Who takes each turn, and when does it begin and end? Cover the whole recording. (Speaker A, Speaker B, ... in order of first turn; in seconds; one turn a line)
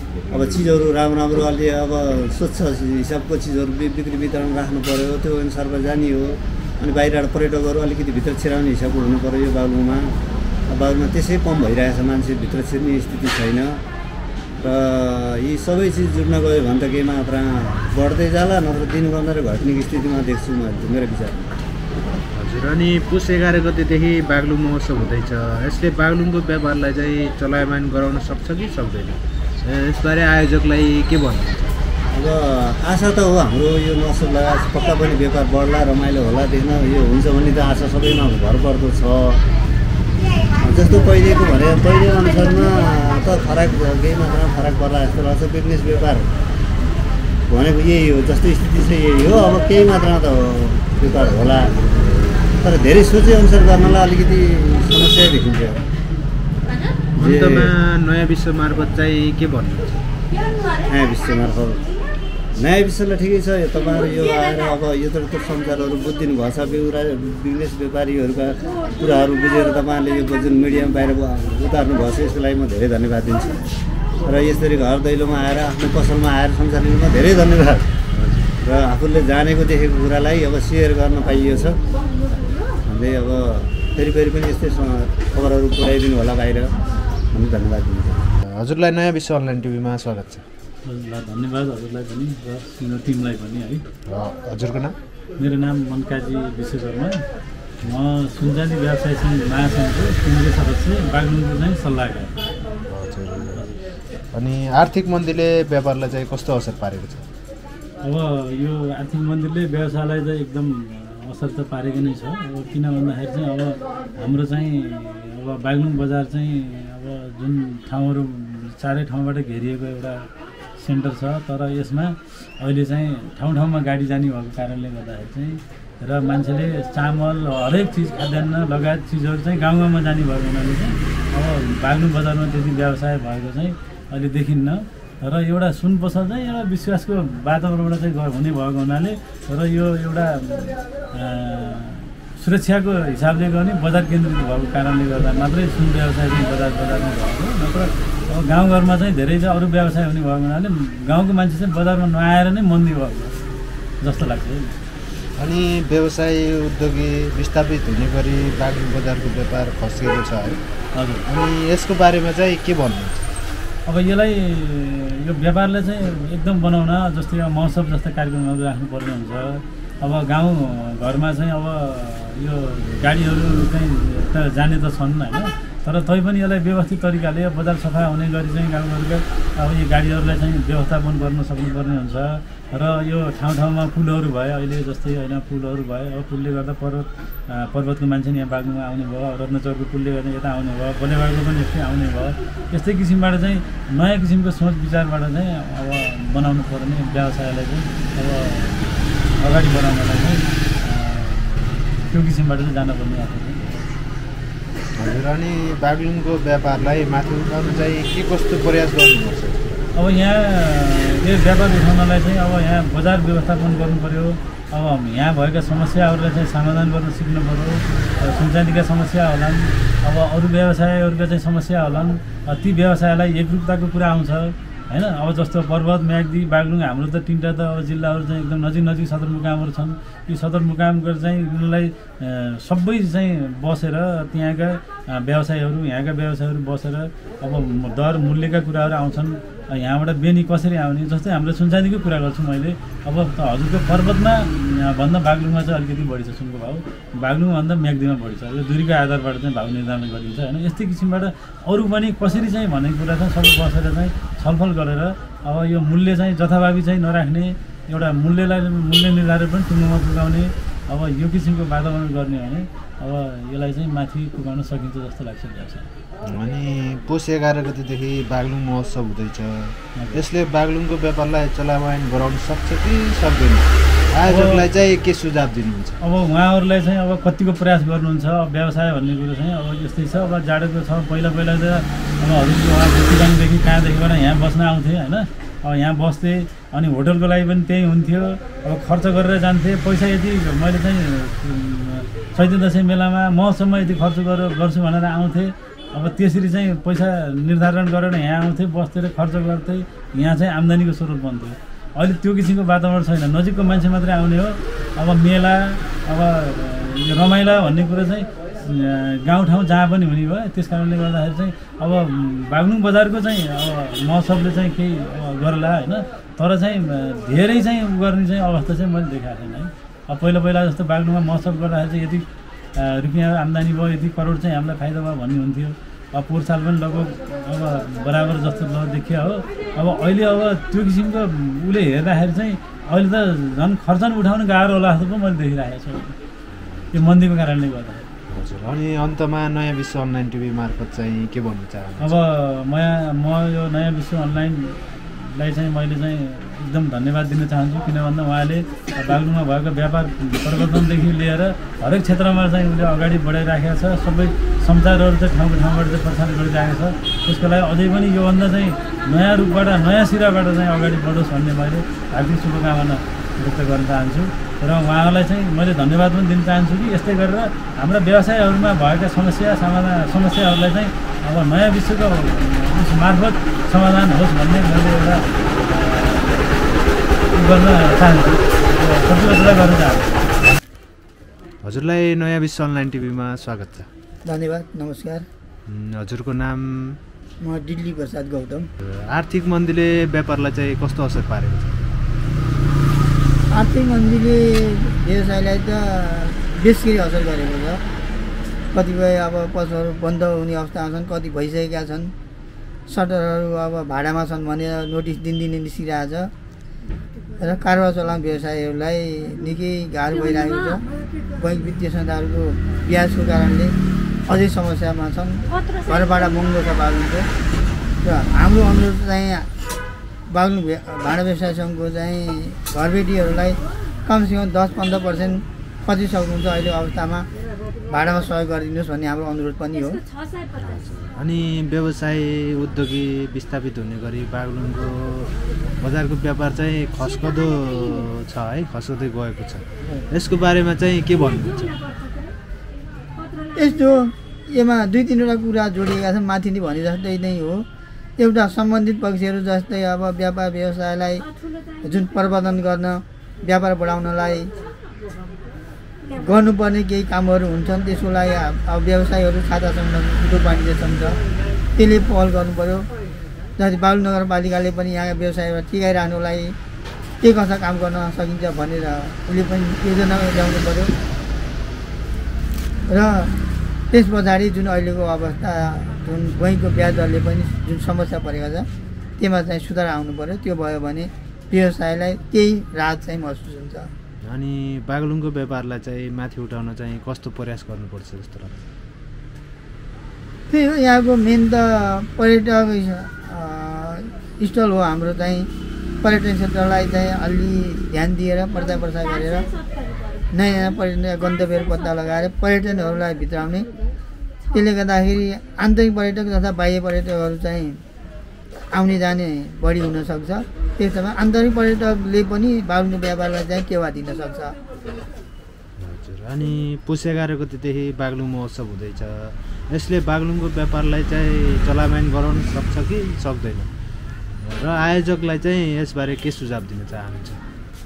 Speaker A: 0.3-10.1
Speaker A: 10.7-13.8
Speaker A: 14.6-21.5
Speaker B: 22.3-31.8
Speaker A: 32.1-39.4
Speaker A: 40.6-46.3
Speaker A: 47.5-55.8
Speaker B: 57.1-60.1
Speaker A: 57.2-57.7
Speaker A: 60.8-61.9
Speaker A: 62.5-73.6
Speaker A: 74.2-78.0
Speaker B: 78.1-78.5
Speaker A: 78.6-81.8
Speaker A: 82.8-86.7
Speaker A: 87.3-88.3
Speaker B: 88.4-90.5
Speaker C: 90.9-93.8
Speaker B: 94.1-95.0
Speaker C: 95.4-97.2
Speaker C: 97.8-102.3
Speaker B: 102.9-103.7
Speaker B: 104.3-107.3
Speaker C: 108.0-120.3
Speaker C: 120.8-153.4
Speaker C: 154.0-154.8
Speaker B: 155.4-160.6
Speaker C: 161.0-161.2
Speaker B: 161.3-163.3
Speaker C: 163.9-198.8
Speaker C: 199.4-203.7
Speaker B: 205.0-209.9
Speaker C: 209.9-265.9
Speaker B: 266.2-276.0
Speaker C: 274.3-274.7
Speaker C: 276.0-336.1
Speaker B: 336.6-336.9
Speaker C: 336.9-338.1
Speaker B: 338.3-342.2
Speaker C: 342.0-376.7
Speaker C: 377.3-380.2
Speaker B: 381.6-383.9
Speaker D: 384.3-385.3
Speaker B: 385.7-387.0
Speaker D: 387.4-388.7
Speaker B: 388.8-391.9
Speaker D: 393.5-397.8
Speaker D: 398.7-402.1
Speaker D: 402.9-406.3
Speaker D: 407.4-410.8
Speaker D: 411.4-413.7
Speaker D: 414.3-417.3
Speaker D: 418.0-419.5
Speaker D: 420.3-427.3
Speaker D: 427.9-430.0
Speaker B: 430.5-441.9
Speaker D: 443.6-447.6
Speaker D: 448.2-451.3
Speaker D: 451.8-454.5
Speaker D: 456.1-461.2
Speaker D: 461.8-462.9
Speaker D: 463.6-466.6
Speaker D: 467.2-470.9
Speaker D: 472.9-473.4
Speaker D: 473.9-478.7
Speaker D: 479.2-483.9
Speaker B: 484.2-488.6
Speaker D: 490.5-495.5
Speaker D: 496.0-499.5
Speaker D: 500.3-503.7
Speaker D: 504.5-507.8
Speaker D: 508.7-514.5
Speaker B: 515.8-523.7
Speaker B: 524.4-527.4